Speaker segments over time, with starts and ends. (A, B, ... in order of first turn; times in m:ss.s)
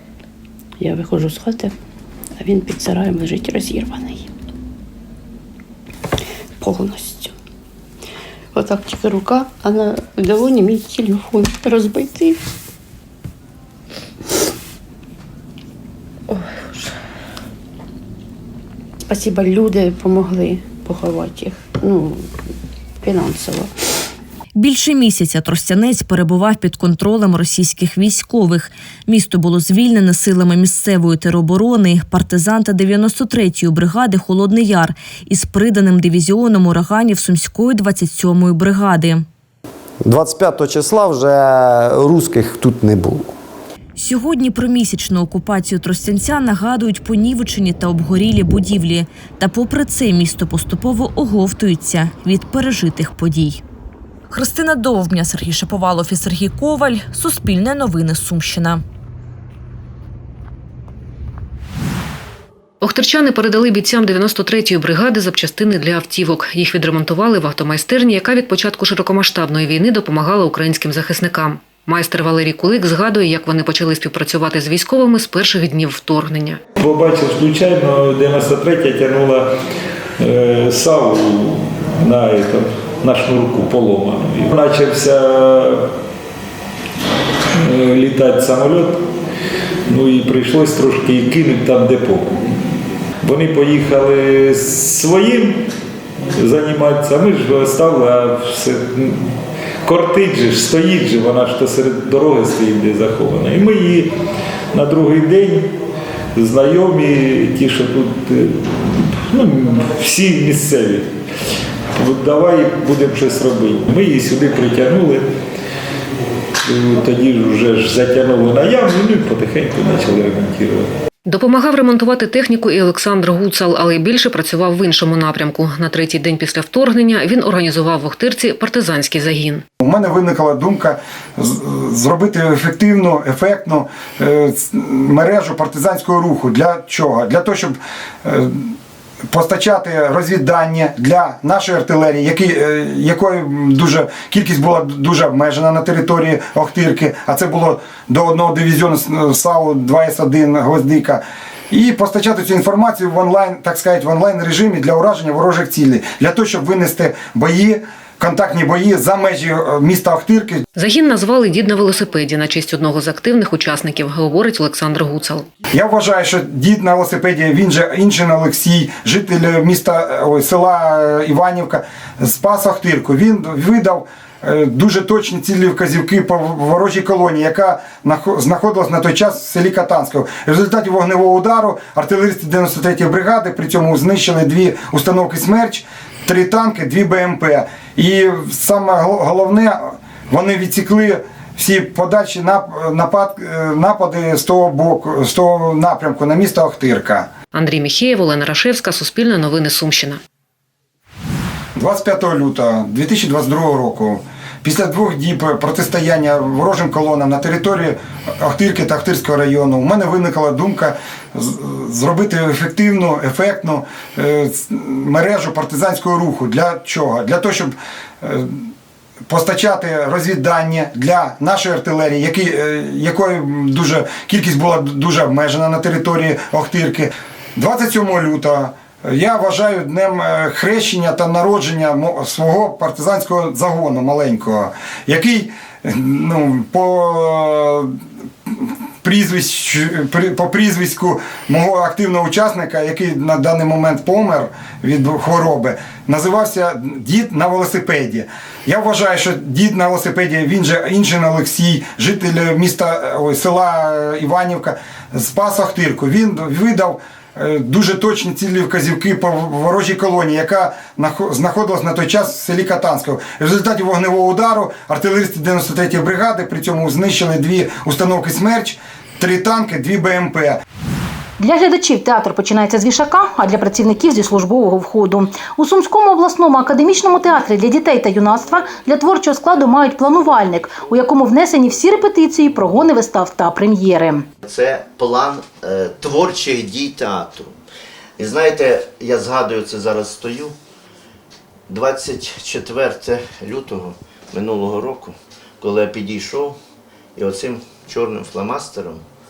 0:00.8-0:01.7 A
0:02.4-0:04.2 A
0:06.6-0:07.3 A
0:08.5-0:12.4 A
0:19.1-0:22.2 A
0:23.0-0:23.7 A
0:24.5-0:39.2 B
0:40.0-0:43.3 C
0:44.0-0:53.6 B
0:54.3-0:58.8 B
1:02.8-1:16.6 D
1:16.8-1:19.4 E
1:20.2-1:25.8 E
1:27.6-1:29.0 E
1:29.9-1:32.5 E
1:33.2-1:35.6 E
1:36.4-1:39.3 E
1:39.8-1:44.1 E
1:44.7-1:45.7 E
1:46.3-1:51.0 E
1:52.0-1:55.2 E
1:56.6-2:00.9 E
2:01.2-2:09.6 D
2:09.8-2:18.7 F
2:19.3-2:40.6 F
2:40.8-2:45.4 D
2:45.7-3:17.3 F
3:17.5-3:20.2 D
3:21.8-3:38.7 F
3:39.3-3:57.9 F
3:58.5-4:30.6 F
4:31.4-4:44.3 G
4:44.4-4:47.5 H
4:48.2-4:50.5 H
4:51.7-4:56.6 H
4:57.2-4:59.0 H